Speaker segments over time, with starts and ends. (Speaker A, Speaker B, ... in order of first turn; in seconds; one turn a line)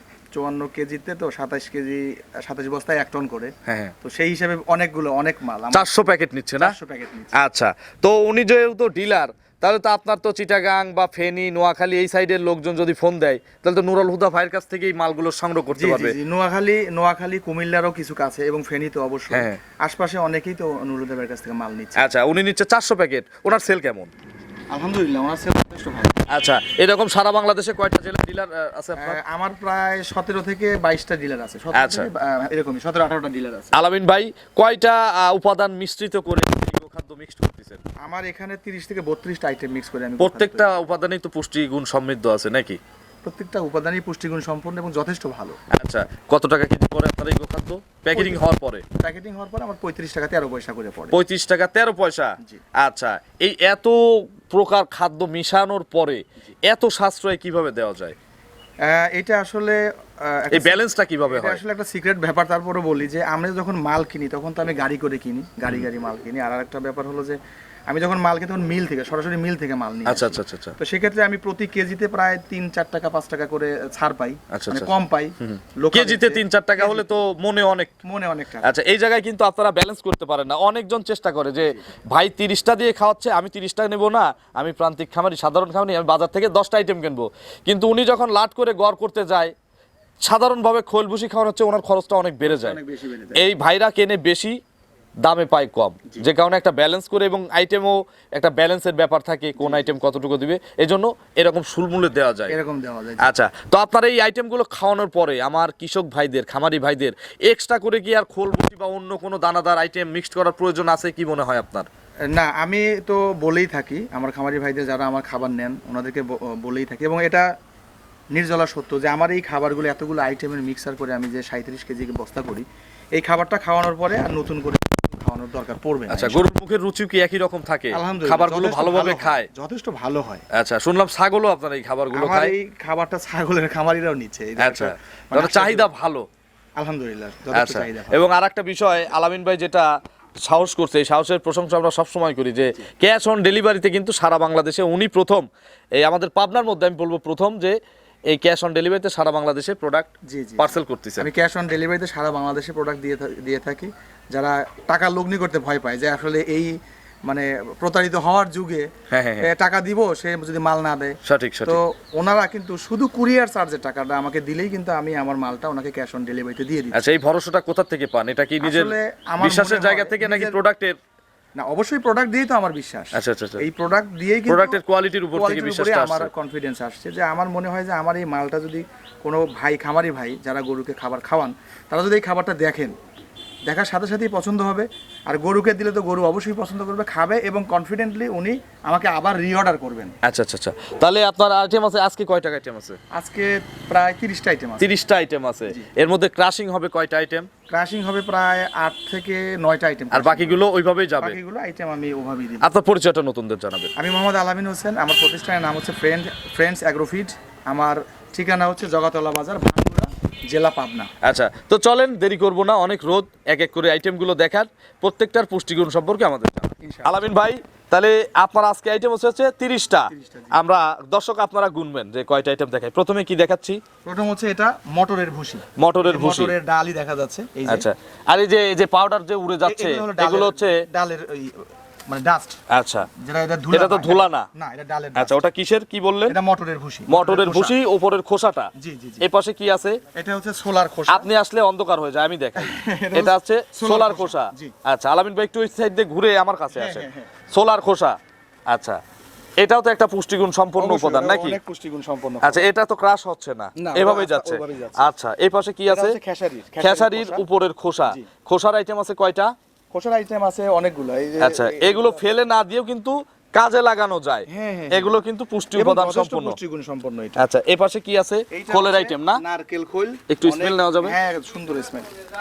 Speaker A: 0.3-7.3
Speaker B: 3.6-3.9
Speaker B: 5.7-6.8
Speaker B: 7.4-16.1
Speaker A: 15.7-22.0
Speaker B: 19.3-19.6
Speaker B: 21.9-24.1
Speaker A: 24.7-26.2
Speaker B: 26.3-29.2
Speaker A: 29.0-33.7
Speaker B: 31.7-32.1
Speaker B: 33.7-37.8
Speaker A: 38.0-40.9
Speaker B: 40.2-42.8
Speaker A: 43.2-45.6
Speaker B: 45.7-48.8
Speaker A: 48.1-48.4
Speaker A: 49.0-51.2
Speaker B: 51.1-58.1
Speaker A: 58.9-67.4
Speaker B: 60.5-61.6
Speaker A: 67.9-77.0
Speaker B: 70.1-70.7
Speaker B: 74.5-74.9
Speaker B: 75.9-77.9
Speaker A: 78.0-78.7
Speaker B: 78.6-89.5
Speaker B: 90.2-92.8
Speaker A: 92.4-93.4
Speaker B: 93.4-94.5
Speaker B: 95.2-102.5
Speaker A: 99.6-99.9
Speaker A: 102.5-103.3
Speaker B: 103.2-111.9
Speaker A: 112.3-117.5
Speaker A: 118.3-126.4
Speaker B: 126.1-129.5
Speaker A: 127.9-130.4
Speaker B: 130.5-132.5
Speaker A: 132.1-135.9
Speaker B: 134.6-136.2
Speaker A: 136.8-138.2
Speaker B: 137.5-139.9
Speaker B: 140.4-145.4
Speaker B: 146.0-147.8
Speaker B: 148.3-151.3
Speaker A: 150.3-156.7
Speaker A: 157.3-158.9
Speaker B: 159.1-159.5
Speaker A: 159.4-167.0
Speaker B: 161.2-161.8
Speaker B: 166.9-170.9
Speaker A: 168.6-170.6
Speaker A: 171.6-174.8
Speaker B: 173.1-173.6
Speaker B: 174.5-176.3
Speaker A: 175.3-182.9
Speaker A: 183.7-190.1
Speaker B: 190.2-193.0
Speaker A: 193.1-194.9
Speaker B: 194.8-197.5
Speaker A: 197.7-200.6
Speaker B: 200.1-201.4
Speaker A: 201.2-202.7
Speaker B: 202.6-203.9
Speaker A: 203.9-211.1
Speaker B: 211.2-223.8
Speaker A: 216.8-217.2
Speaker A: 220.1-220.6
Speaker A: 224.0-227.9
Speaker B: 225.8-226.5
Speaker B: 227.7-230.8
Speaker A: 229.6-232.6
Speaker B: 232.7-233.1
Speaker A: 233.2-235.3
Speaker B: 233.7-234.5
Speaker B: 235.2-236.4
Speaker A: 236.3-237.7
Speaker B: 237.1-238.7
Speaker A: 238.8-239.2
Speaker B: 239.2-240.0
Speaker A: 240.1-241.3
Speaker B: 241.1-248.2
Speaker A: 242.6-244.7
Speaker A: 246.7-247.3
Speaker B: 248.7-249.0
Speaker B: 249.6-251.6
Speaker A: 250.8-252.6
Speaker B: 252.4-256.2
Speaker A: 253.8-255.0
Speaker A: 255.9-257.4
Speaker B: 256.8-259.5
Speaker A: 259.9-262.2
Speaker B: 261.4-266.6
Speaker A: 264.5-265.1
Speaker A: 265.7-267.4
Speaker B: 267.4-269.4
Speaker A: 268.5-272.1
Speaker B: 270.3-271.1